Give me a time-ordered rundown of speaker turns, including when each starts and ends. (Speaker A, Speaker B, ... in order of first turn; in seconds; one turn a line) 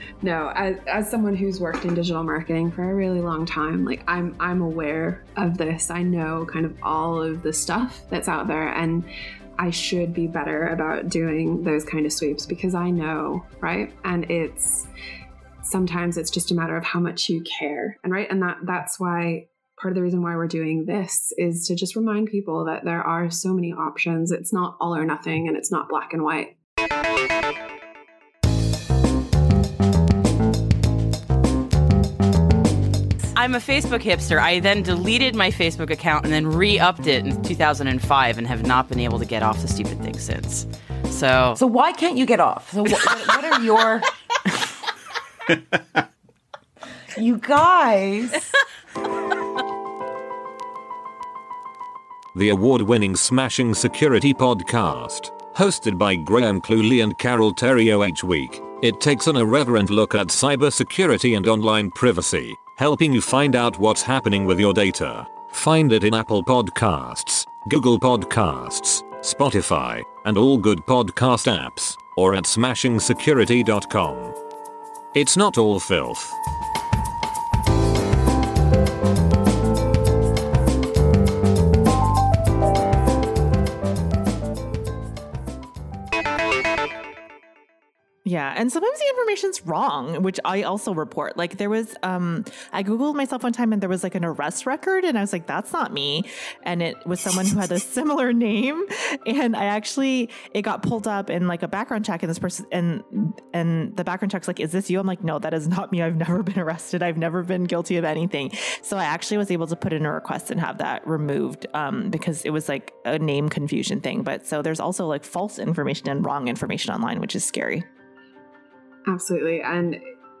Speaker A: 0.2-14.9
Speaker A: 15.6-26.6
Speaker B: 33.3-41.6
Speaker C: 41.5-44.0
Speaker C: 47.1-48.4
Speaker D: 52.3-74.3
Speaker D: 75.1-76.4
Speaker E: 88.2-117.9
Speaker A: 119.1-120.0